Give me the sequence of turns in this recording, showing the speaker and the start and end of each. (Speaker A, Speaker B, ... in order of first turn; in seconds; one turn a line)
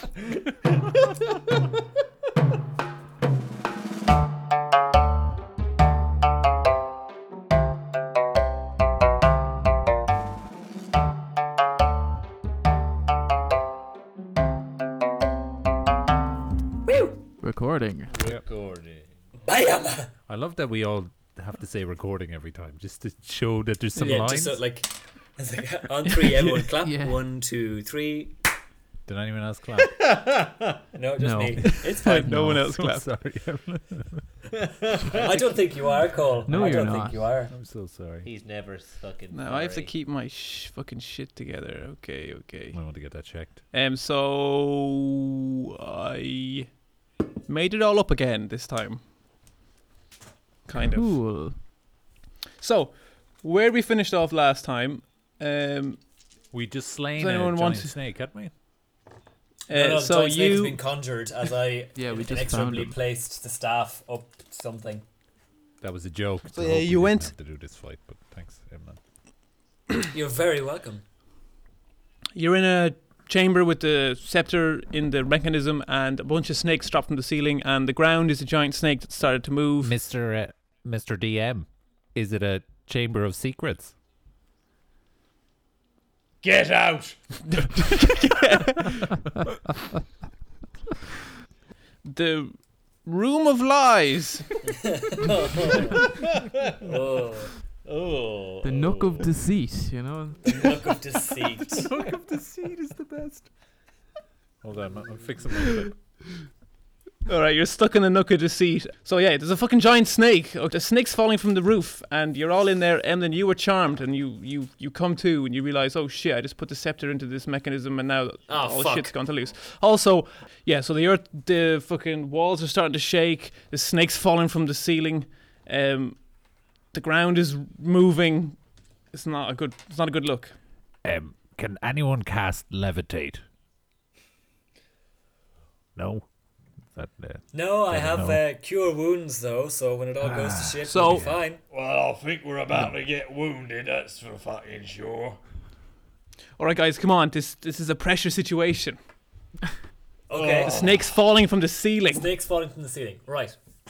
Speaker A: 16.9-17.2
Speaker B: 17.4-18.1
Speaker C: 18.1-19.1
Speaker A: 19.4-20.1
Speaker D: 20.3-24.6
Speaker E: 24.0-24.2
Speaker A: 24.0-28.3
Speaker E: 26.3-26.7
Speaker B: 26.8-27.2
Speaker D: 29.1-30.0
Speaker C: 29.8-30.8
Speaker A: 30.9-32.5
Speaker B: 31.2-32.1
Speaker E: 31.9-33.1
Speaker D: 32.2-34.2
Speaker C: 34.6-35.6
Speaker A: 35.1-37.5
Speaker B: 36.5-37.3
Speaker D: 37.5-38.3
Speaker C: 38.2-39.9
Speaker E: 39.3-42.8
Speaker D: 42.7-43.6
Speaker E: 43.7-46.7
Speaker E: 47.5-49.0
Speaker E: 50.7-51.2
Speaker B: 50.8-51.6
Speaker E: 52.6-56.0
Speaker D: 56.5-58.5
Speaker E: 57.2-58.0
Speaker E: 59.7-60.8
Speaker A: 59.7-65.0
Speaker B: 62.0-63.0
Speaker D: 65.8-69.0
Speaker E: 66.5-67.3
Speaker A: 70.1-71.0
Speaker E: 72.3-80.0
Speaker D: 79.8-83.9
Speaker C: 86.4-87.5
Speaker E: 87.5-89.1
Speaker E: 92.0-94.5
Speaker A: 94.7-96.1
Speaker C: 96.0-96.9
Speaker A: 96.8-97.5
Speaker C: 97.8-99.3
Speaker B: 98.6-100.8
Speaker A: 100.4-101.9
Speaker E: 101.6-103.5
Speaker D: 104.6-106.0
Speaker E: 107.2-126.2
Speaker A: 118.5-119.1
Speaker E: 126.9-128.6
Speaker E: 129.1-130.5
Speaker D: 131.0-133.4
Speaker D: 135.9-136.3
Speaker D: 136.9-138.4
Speaker A: 137.5-141.6
Speaker D: 140.2-141.4
Speaker E: 140.8-141.3
Speaker C: 141.7-145.4
Speaker E: 146.6-149.0
Speaker A: 150.3-150.8
Speaker C: 150.3-151.1
Speaker E: 150.7-152.3
Speaker A: 152.1-153.6